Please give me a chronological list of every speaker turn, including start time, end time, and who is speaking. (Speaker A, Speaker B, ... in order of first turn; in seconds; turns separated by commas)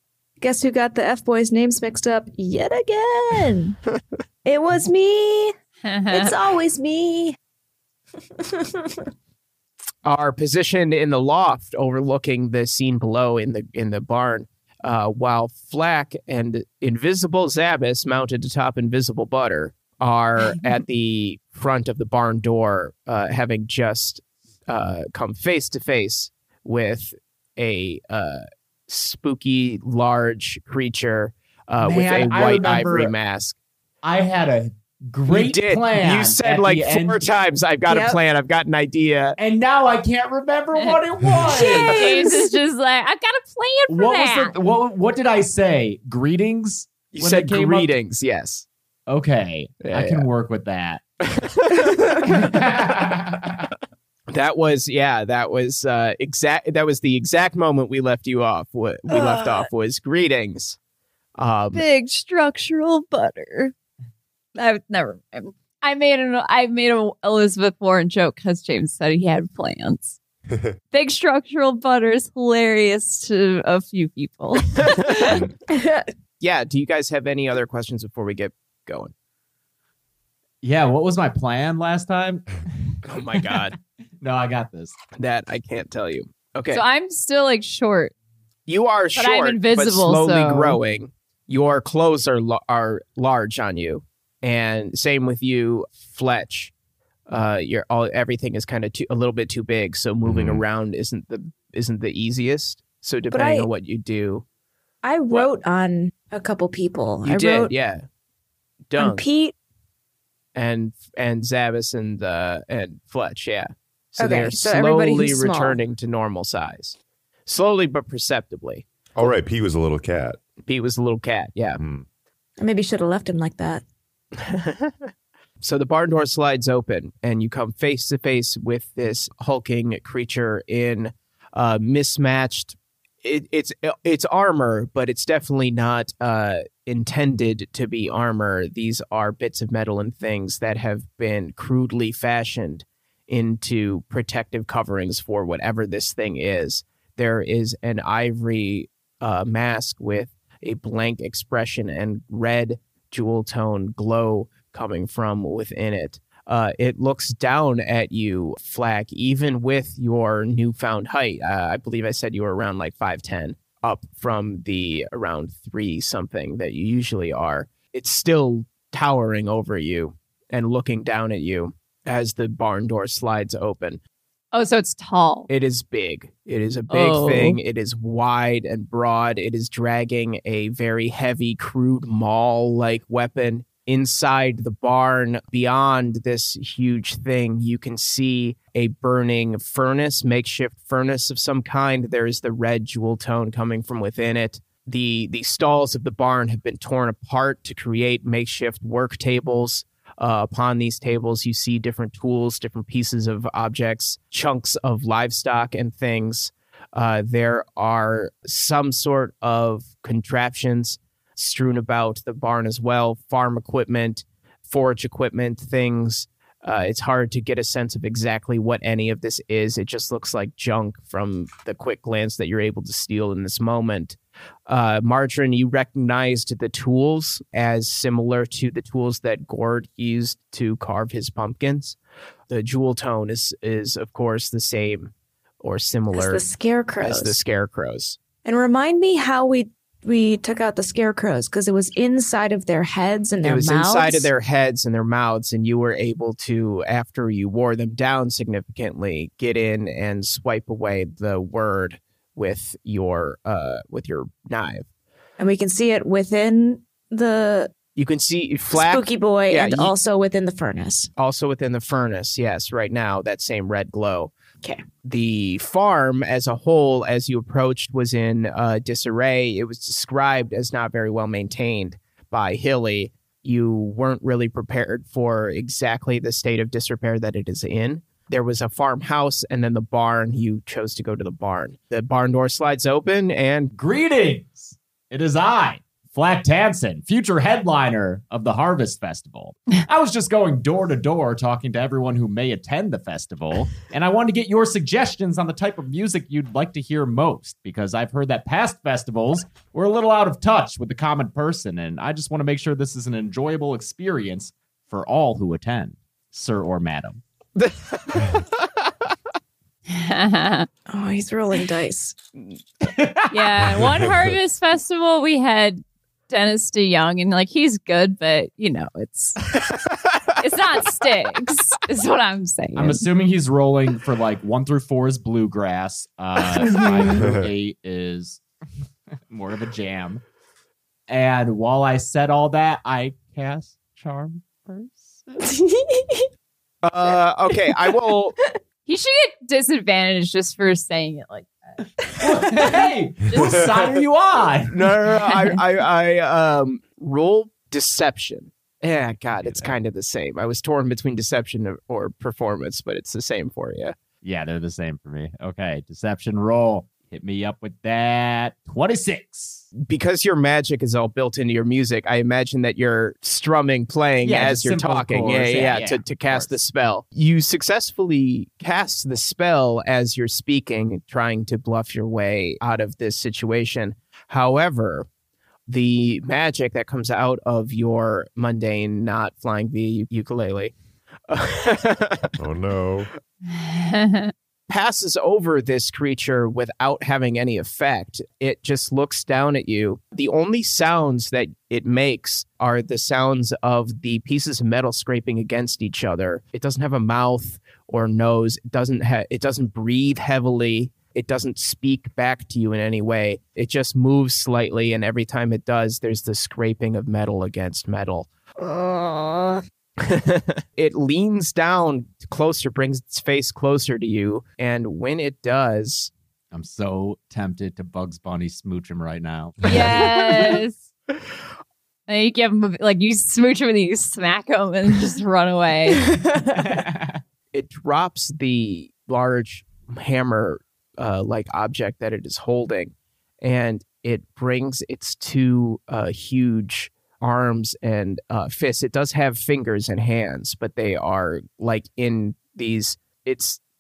Speaker A: 0.4-3.8, Speaker A: 4.5-5.5, Speaker B: 5.9-6.3, Speaker A: 6.1-7.4, Speaker A: 8.6-9.0, Speaker C: 10.1-33.6, Speaker D: 31.8-33.1, Speaker D: 34.0-37.2, Speaker C: 35.3-39.4, Speaker A: 37.9-38.2, Speaker D: 39.4-42.1, Speaker B: 40.8-44.6, Speaker A: 41.5-42.5, Speaker D: 43.9-47.9, Speaker C: 47.1-48.7, Speaker D: 49.1-51.0, Speaker C: 49.8-50.3, Speaker C: 51.3-52.4, Speaker D: 52.0-53.7, Speaker C: 54.3-60.8, Speaker A: 59.1-59.4, Speaker C: 61.4-61.9, Speaker B: 61.7-63.7, Speaker B: 64.6-70.2, Speaker B: 70.9-75.4, Speaker C: 74.8-75.2, Speaker E: 75.2-75.5, Speaker A: 75.7-76.1, Speaker C: 76.4-79.1, Speaker D: 80.6-82.5, Speaker C: 83.0-83.8, Speaker D: 83.4-83.7, Speaker D: 84.2-84.9, Speaker C: 85.2-86.8, Speaker B: 86.7-88.1, Speaker C: 88.7-96.7, Speaker B: 89.2-90.8, Speaker C: 97.3-104.5, Speaker E: 100.2-100.6, Speaker A: 103.3-103.7, Speaker A: 105.0-107.7, Speaker C: 107.2-108.0, Speaker C: 108.9-109.2, Speaker A: 109.0-109.5, Speaker C: 110.5-118.9, Speaker A: 114.2-115.8, Speaker E: 119.2-120.4, Speaker C: 120.6-121.8, Speaker E: 121.8-122.1, Speaker A: 122.6-123.8, Speaker C: 124.4-125.1, Speaker C: 125.6-174.0, Speaker B: 174.5-175.5, Speaker C: 175.5-232.0, Speaker B: 176.9-177.6, Speaker C: 232.5-236.5, Speaker A: 236.1-237.4, Speaker C: 237.0-238.2, Speaker A: 238.4-244.3, Speaker C: 243.4-254.9, Speaker A: 255.4-257.7, Speaker C: 257.9-259.9, Speaker A: 258.7-261.1, Speaker C: 261.2-264.3, Speaker C: 265.0-283.7, Speaker D: 283.8-307.2, Speaker C: 307.6-308.5, Speaker B: 309.9-310.7, Speaker A: 310.9-312.2, Speaker D: 312.8-313.4, Speaker B: 313.3-319.6, Speaker E: 313.8-314.3, Speaker B: 320.4-323.1, Speaker D: 322.8-328.4, Speaker E: 327.1-327.5, Speaker D: 329.3-330.2, Speaker D: 331.1-335.3, Speaker A: 335.4-336.3, Speaker C: 336.8-338.4, Speaker B: 338.9-341.5, Speaker D: 342.2-344.9, Speaker B: 343.3-343.7, Speaker C: 344.7-354.0, Speaker D: 349.4-349.7, Speaker D: 354.2-359.7, Speaker C: 359.8-375.1, Speaker D: 364.2-366.6, Speaker C: 375.7-380.7, Speaker C: 381.3-382.4, Speaker E: 382.4-383.1, Speaker B: 383.5-384.3, Speaker C: 384.7-408.3, Speaker A: 408.6-409.6, Speaker C: 410.0-416.1, Speaker D: 416.5-420.5, Speaker B: 419.6-420.8, Speaker B: 422.1-426.1, Speaker D: 426.5-427.2, Speaker C: 427.5-443.6